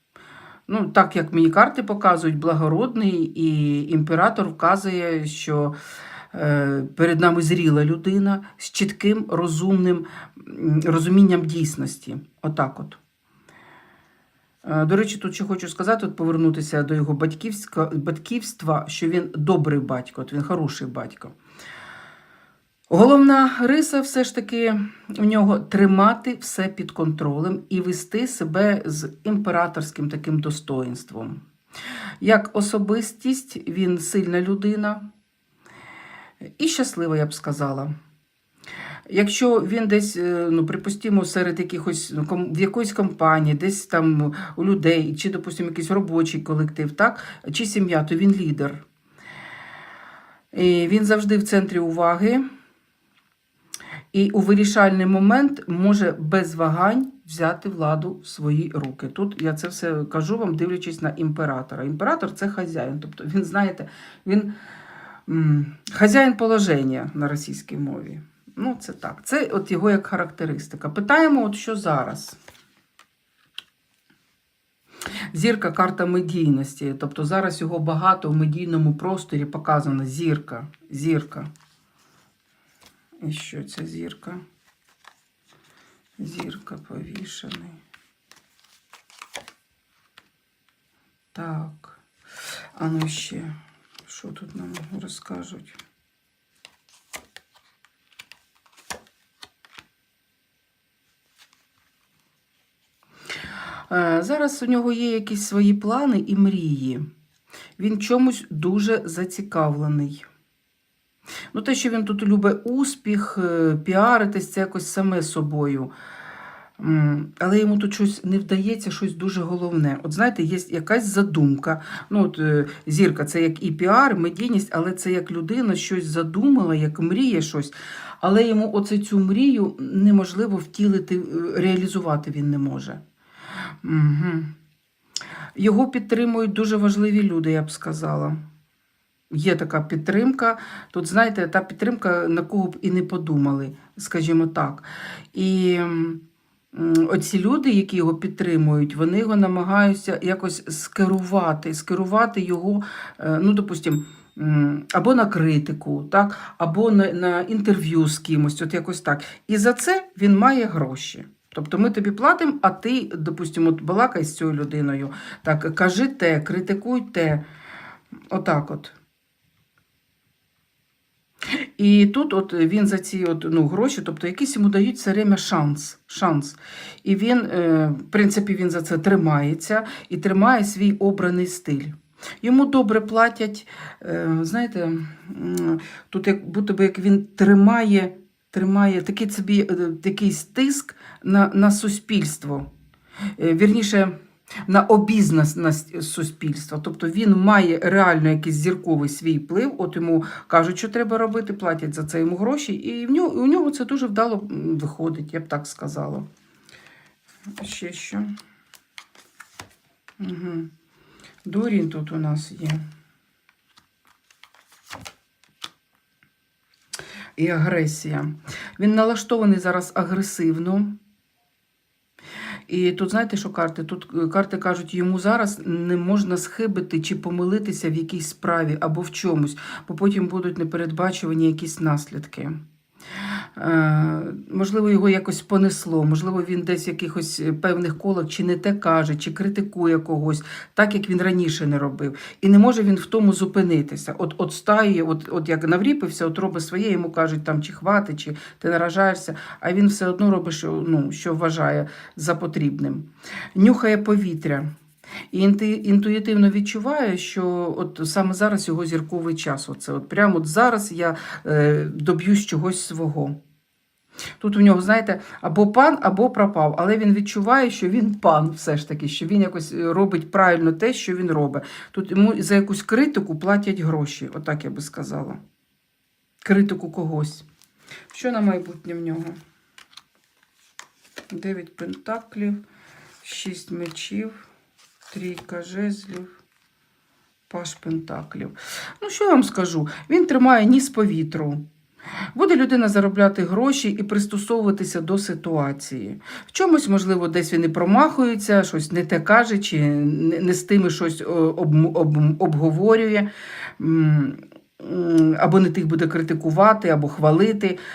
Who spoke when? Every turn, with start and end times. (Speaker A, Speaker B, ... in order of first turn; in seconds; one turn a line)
Speaker A: 0.7-5.8
Speaker A: 6.3-13.0
Speaker A: 14.6-21.3
Speaker A: 22.9-31.4
Speaker A: 32.2-35.1
Speaker A: 36.6-37.9
Speaker A: 39.1-48.8
Speaker A: 50.5-52.4
Speaker A: 54.1-64.5
Speaker A: 65.2-72.4
Speaker A: 75.3-81.5
Speaker A: 83.2-84.4
Speaker A: 86.2-87.8
Speaker A: 91.3-92.0
Speaker A: 92.8-93.5
Speaker A: 94.1-95.8
Speaker A: 103.9-107.1
Speaker A: 107.8-110.2
Speaker A: 111.5-115.9
Speaker A: 116.8-133.0
Speaker A: 133.8-134.5
Speaker A: 135.6-138.4
Speaker A: 139.3-167.4
Speaker A: 168.3-168.9
Speaker A: 171.5-192.7
Speaker A: 193.4-206.2
Speaker A: 207.6-208.3
Speaker A: 210.2-210.7
Speaker A: 211.4-212.8
Speaker A: 217.4-220.9
Speaker A: 222.7-232.6
Speaker A: 233.6-254.7
Speaker A: 255.3-263.4
Speaker A: 264.4-275.4
Speaker A: 276.4-277.4
Speaker A: 278.1-279.4
Speaker A: 281.3-282.6
Speaker A: 283.2-284.4
Speaker A: 285.1-286.4
Speaker A: 287.5-291.6
Speaker A: 292.3-303.3
Speaker A: 303.8-307.8